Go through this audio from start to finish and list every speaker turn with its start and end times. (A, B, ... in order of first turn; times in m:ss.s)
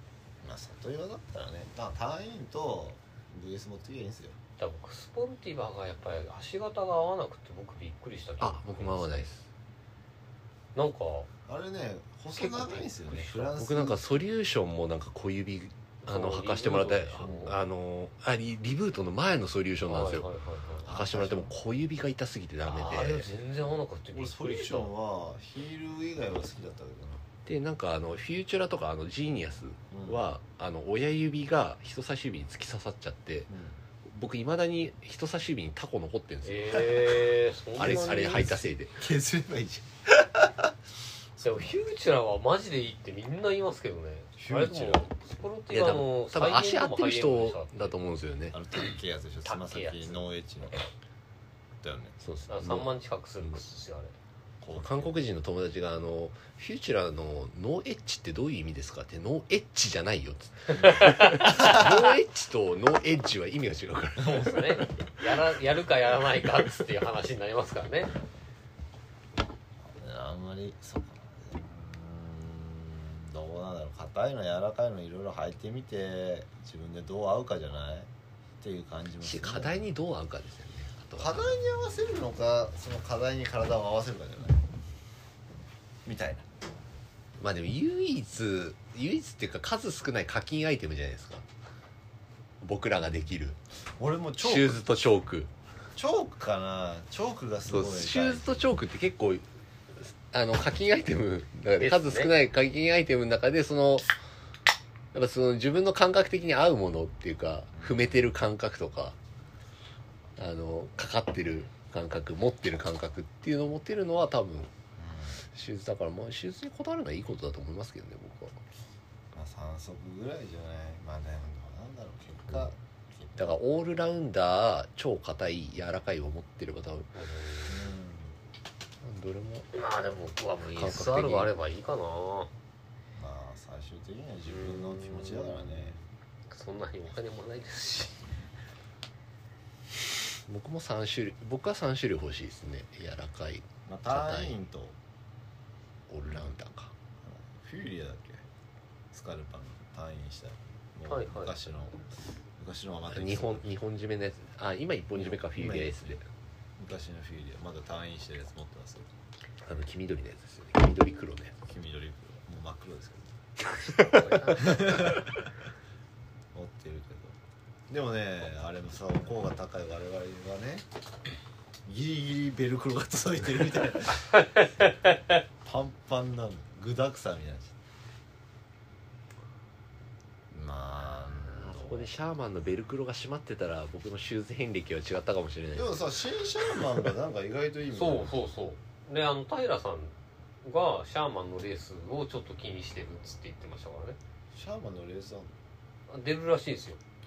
0:00.4-0:04.4 A
0:04.6-0:09.3 B
0:08.4-0:09.5 C
0:10.8-0:11.3 B
0:11.5-0:14.2 A
0:12.4-0:13.5 B
0:13.5-0:20.3 C
0:16.0-0:17.6 B
0:19.9-0:20.9 B
0:20.8-0:21.5 A
0:20.8-0:23.3 C
0:22.7-0:24.9 B
0:24.1-0:27.2 A
0:27.5-0:33.5 C
0:29.9-0:30.2 A
0:33.5-0:33.8 A
0:34.0-0:37.2 C
0:36.4-0:38.7 B
0:37.8-0:39.0 C
0:38.0-0:40.7 A
0:41.4-0:41.7 A
0:41.4-0:48.0 B
0:44.4-0:45.1 A
0:45.7-0:48.6 C
0:48.5-0:50.8 A
0:49.4-0:50.2 B
0:51.8-0:52.2 A
0:52.2-0:53.6 C
0:52.5-0:54.1 B
0:54.6-0:55.3 A
0:54.7-1:04.9 C
1:00.7-1:01.8 B
1:01.5-1:01.9 A
1:04.2-1:04.5 A
1:04.2-1:08.1 B
1:09.8-1:18.1 A
1:18.6-1:19.8 A
1:19.2-1:21.6 C
1:21.2-1:24.6 A
1:26.0-1:26.5 A
1:27.4-1:31.4 C
1:32.6-1:33.6 C
1:34.0-1:34.8 A
1:34.4-1:35.5 C
1:36.0-1:38.7 A
1:37.7-1:39.4 C
1:40.3-1:44.1 C
1:41.8-1:42.3 B
1:45.1-1:49.2 C
1:47.8-1:48.3 A
1:50.4-1:54.7 C
1:55.0-1:55.4 A
1:55.5-1:58.6 C
1:59.3-2:03.6 A
2:03.4-2:07.1 C
2:07.1-2:07.9 B
2:07.7-2:08.4 A
2:09.0-2:09.7 C
2:09.7-2:12.5 B
2:10.7-2:11.5 C
2:13.2-2:16.0 A
2:14.5-2:16.0 B
2:16.5-2:18.2 B
2:20.5-2:24.6 C
2:23.9-2:25.0 A
2:26.1-2:26.9 C
2:27.2-2:28.4 A
2:29.1-2:33.7 A
2:31.1-2:31.5 B
2:33.1-2:36.2 C
2:35.2-2:36.2 A
2:36.8-2:39.1 A
2:39.6-2:41.6 C
2:41.6-2:43.3 A
2:43.6-2:45.0 B
2:43.9-2:44.5 C
2:44.6-2:45.5 A
2:46.5-2:47.4 A
2:47.9-2:50.8 A
2:51.9-2:54.3 A
2:54.6-2:54.8 B
2:55.6-2:57.8 A
3:00.5-3:02.1 A
3:01.5-3:06.0 C
3:05.8-3:08.4 A
3:07.9-3:14.2 B
3:14.5-3:15.5 A
3:16.1-3:17.0 B